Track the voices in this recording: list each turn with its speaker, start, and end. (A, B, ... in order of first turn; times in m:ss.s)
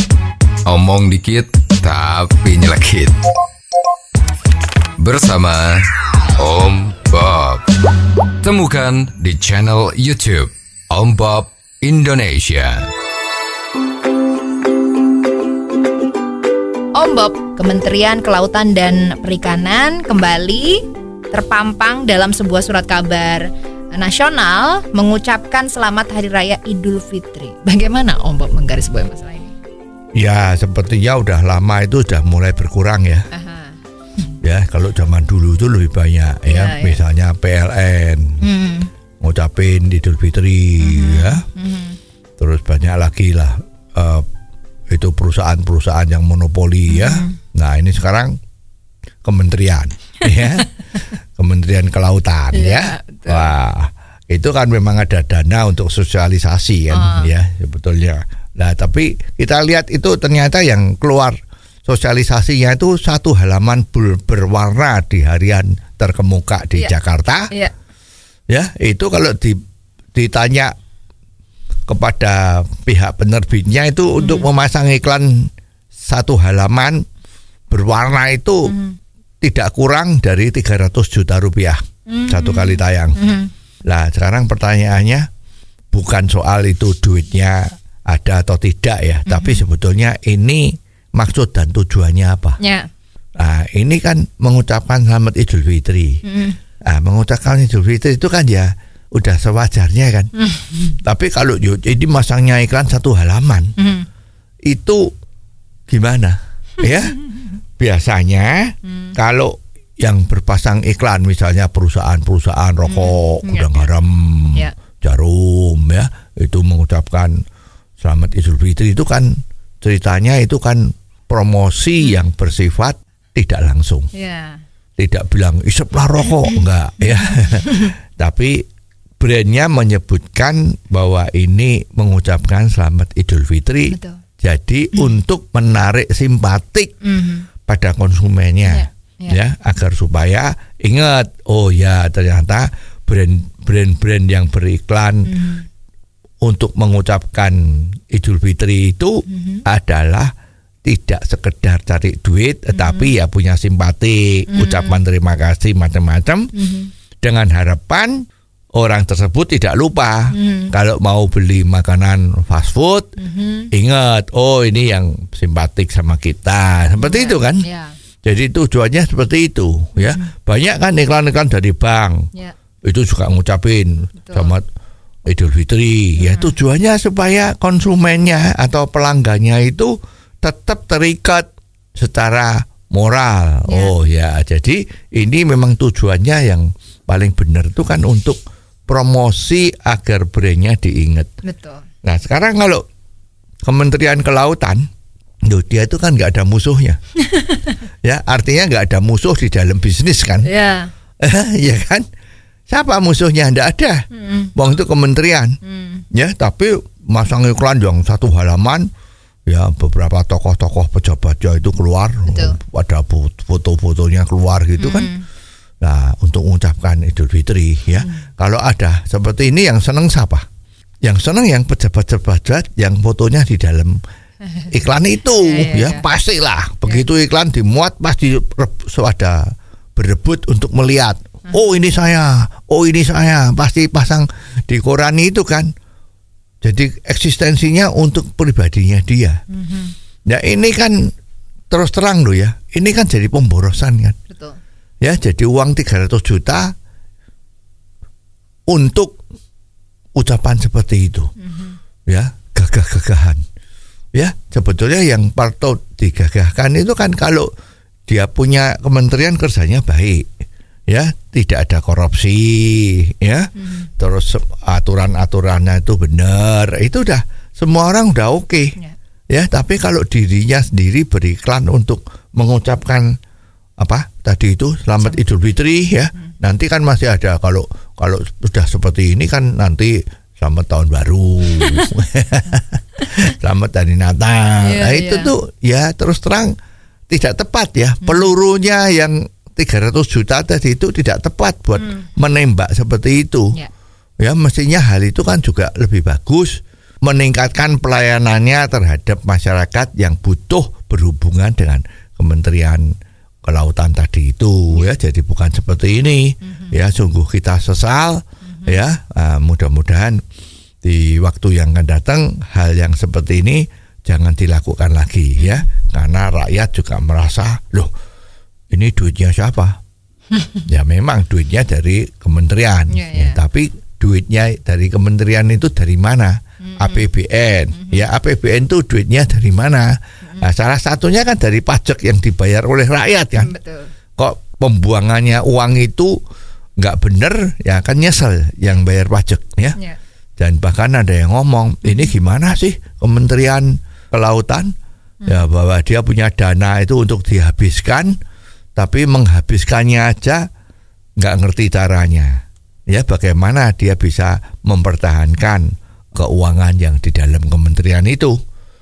0:00.6-0:03.2 A
0:05.0-0:05.8 A
0:06.4-0:07.6 A
0:08.4-0:12.9 A
0:16.9-0:29.6 B
0:30.2-0:33.3 C
0:33.3-0:33.8 B
0:34.4-0:38.5 C
0:36.5-0:37.0 B
0:38.4-0:38.9 B
0:39.2-0:41.4 C
0:40.8-0:42.0 B
0:42.4-0:44.3 C
0:44.9-0:48.4 C
0:46.9-0:47.4 B
0:49.2-1:07.5 C
0:52.5-0:53.5 B
0:56.9-0:57.3 B
1:08.5-1:09.6 C
1:10.1-1:10.7 C
1:11.9-1:15.5 C
1:14.2-1:14.5 B
1:16.1-1:17.0 C
1:17.7-1:18.7 C
1:18.6-1:19.0 B
1:19.4-1:23.2 C
1:22.1-1:23.5 B
1:23.9-1:25.3 C
1:25.9-1:32.6 C
1:29.3-1:29.6 B
1:32.6-1:32.9 B
1:33.4-1:36.2 C
1:36.2-1:36.6 B
1:36.9-1:40.3 C
1:40.4-1:40.9 B
1:41.0-1:43.8 C
1:43.8-1:44.1 B
1:44.6-1:45.1 C
1:45.9-1:47.2 C
1:47.8-1:57.4 C
1:48.8-1:49.2 B
1:52.9-1:53.9 B
1:58.0-2:04.1 C
2:04.1-2:04.6 B
2:05.0-2:08.6 C
2:09.2-2:16.9 C
2:13.9-2:14.2 B
2:17.0-2:17.5 B
2:17.7-2:25.3 C
2:18.6-2:19.4 B
2:25.3-2:25.7 B
2:26.4-2:30.3 C
2:29.3-2:29.6 B
2:30.8-2:36.5 C
2:32.7-2:33.1 B
2:34.5-2:35.0 B
2:36.5-2:36.9 B
2:37.2-2:38.2 C
2:38.7-2:43.1 C
2:40.3-2:40.7 B
2:43.2-2:43.7 B
2:43.7-2:47.7 C
2:47.0-2:48.0 B
2:48.2-2:52.3 C
2:50.0-2:50.3 B
2:52.8-2:54.6 C
2:54.2-2:54.6 B
2:55.3-3:11.3 C
2:56.2-2:56.6 B
3:03.7-3:03.9 B
3:11.4-3:11.9 B
3:12.0-3:12.8 C
3:13.6-3:14.9 C
3:15.4-3:17.0 C
3:17.3-3:17.8 B
3:18.0-3:20.5 C
3:20.4-3:20.9 B
3:21.2-3:22.0 C
3:22.7-3:25.6 C
3:24.1-3:24.5 B
3:25.6-3:26.0 B
3:26.1-3:28.9 C
3:29.5-3:35.1 C
3:32.3-3:32.6 B
3:34.8-3:35.2 B
3:35.8-3:40.4 C
3:41.0-3:44.0 C
3:44.7-3:55.7 C
3:45.3-3:46.0 B
3:56.6-3:59.4 C
3:59.5-3:59.9 B
4:00.3-4:01.1 C
4:01.7-4:04.2 C
4:04.3-4:04.6 B
4:05.0-4:06.7 C
4:08.7-4:09.2 C
4:10.2-4:11.3 C
4:11.4-4:11.8 B
4:12.1-4:13.4 C
4:14.1-4:17.5 C
4:18.1-4:20.3 C
4:20.9-4:28.8 C
4:23.6-4:23.9 B
4:29.3-4:33.2 C
4:33.8-4:46.5 C
4:41.6-4:41.9 B
4:44.6-4:45.3 B
4:47.1-4:53.6 C
4:51.8-4:52.1 B
4:54.2-5:02.9 C
5:03.4-5:10.2 C
5:06.4-5:06.8 B
5:08.4-5:08.8 B
5:10.8-5:17.9 C
5:15.4-5:15.7 B
5:18.7-5:19.8 C
5:20.4-5:20.6 B
5:20.7-5:33.5 C
5:22.9-5:23.4 B
5:26.6-5:27.1 B
5:27.7-5:28.1 B
5:33.4-5:33.9 B
5:34.2-5:36.2 C
5:36.8-5:39.8 C
5:40.4-5:44.7 C
5:45.3-5:48.2 C
5:48.8-5:50.5 C
5:51.2-5:58.4 C